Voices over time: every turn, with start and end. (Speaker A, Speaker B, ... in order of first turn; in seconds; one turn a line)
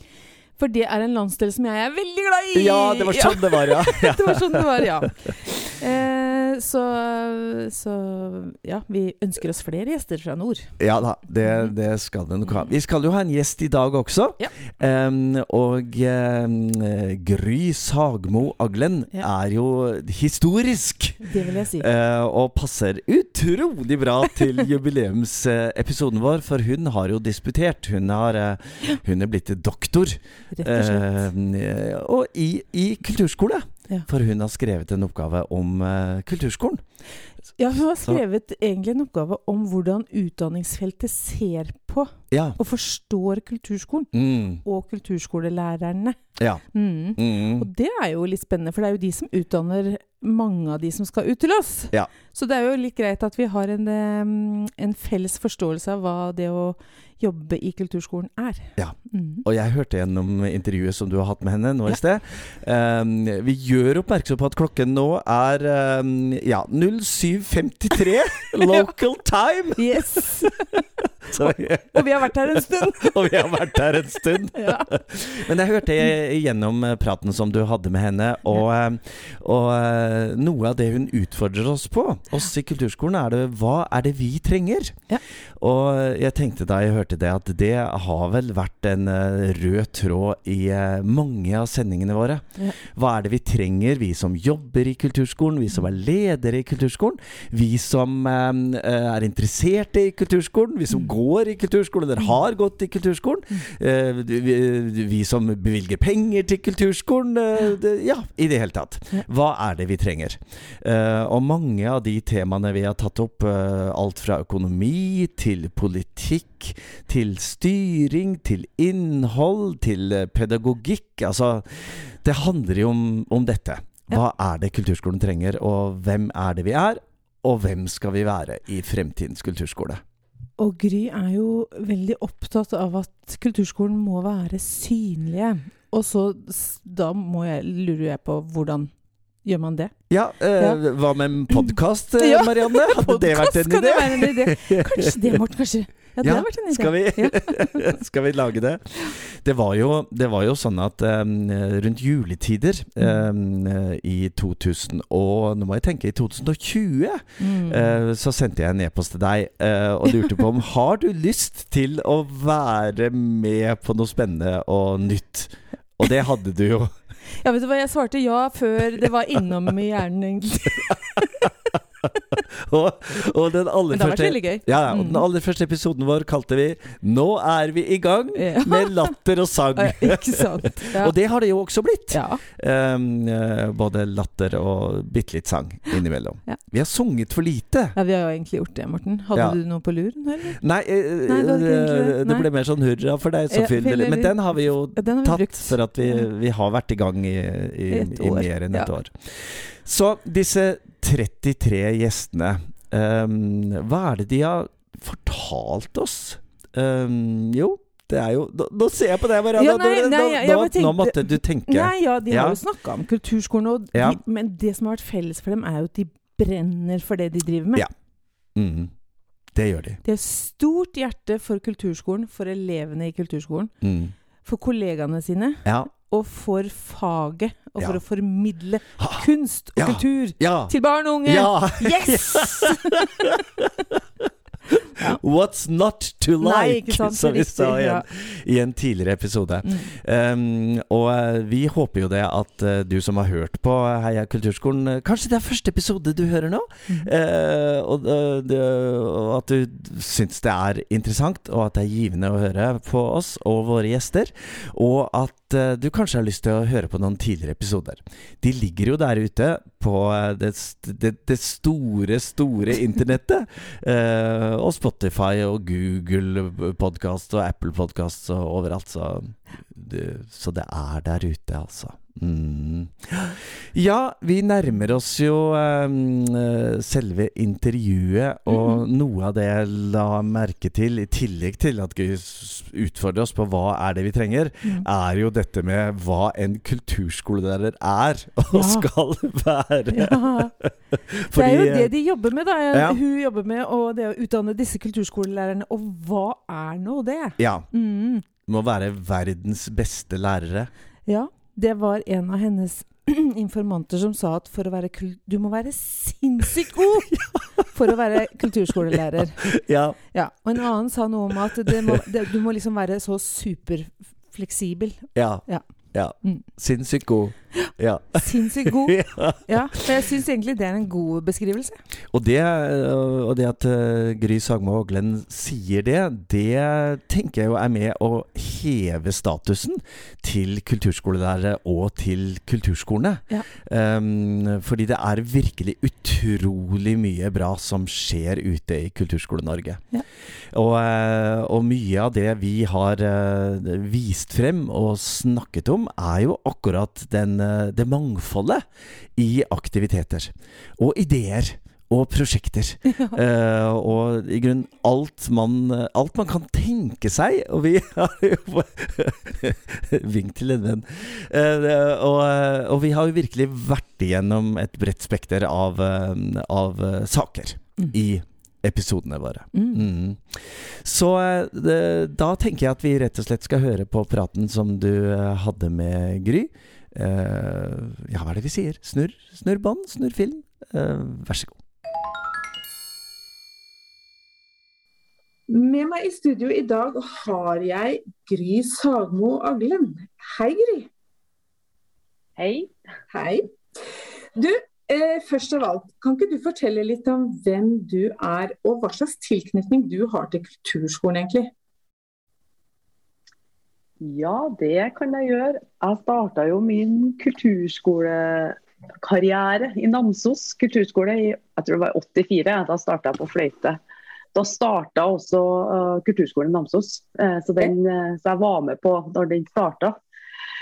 Speaker A: 0.6-10.7
Speaker B: 2.5-5.0
Speaker B: 10.8-36.8
Speaker A: 21.2-21.9
Speaker A: 30.5-31.1
Speaker A: 37.6-44.1
Speaker B: 42.3-42.6
Speaker B: 44.1-44.6
Speaker A: 44.6-46.2
Speaker B: 46.4-46.6
Speaker A: 46.7-59.4
Speaker B: 47.1-47.7
Speaker B: 58.8-85.0
Speaker A: 69.8-70.8
Speaker A: 71.4-73.8
Speaker A: 74.5-74.9
Speaker B: 85.6-130.0
Speaker A: 130.6-138.9
Speaker A: 139.4-139.9
Speaker B: 140.1-145.4
Speaker A: 141.5-147.9
Speaker B: 146.2-166.9
Speaker A: 157.4-157.9
Speaker A: 167.4-171.5
Speaker B: 170.9-187.9
Speaker A: 173.9-175.2
Speaker A: 178.3-179.1
Speaker A: 179.7-181.1
Speaker A: 182.1-182.4
Speaker A: 187.9-190.6
Speaker B: 190.5-212.6
Speaker A: 191.2-192.4
Speaker A: 193.5-196.3
Speaker A: 197.9-198.9
Speaker A: 209.5-217.8
Speaker B: 213.9-214.2
Speaker B: 218.5-218.9
Speaker B: 219.5-220.0
Speaker A: 220.0-223.7
Speaker B: 223.8-224.1
Speaker A: 224.4-233.3
Speaker B: 225.6-225.9
Speaker B: 229.0-291.9
Speaker A: 236.4-238.0
Speaker A: 239.6-239.9
Speaker A: 288.5-288.9
Speaker A: 289.9-290.5
Speaker A: 291.3-298.2
Speaker B: 292.7-293.0
Speaker B: 297.4-297.7
Speaker B: 298.4-300.7
Speaker A: 301.1-309.6
Speaker B: 307.2-307.9
Speaker B: 308.9-310.0
Speaker A: 310.1-315.7
Speaker B: 315.1-319.5
Speaker A: 316.2-316.5
Speaker A: 317.6-321.8
Speaker B: 322.1-339.8
Speaker B: 340.5-348.6
Speaker B: 349.1-381.6
Speaker A: 369.5-369.9
Speaker C: 385.5-390.9
Speaker D: 392.4-392.7
Speaker C: 393.1-393.4
Speaker C: 394.4-401.5
Speaker D: 404.0-413.8
Speaker D: 414.3-419.9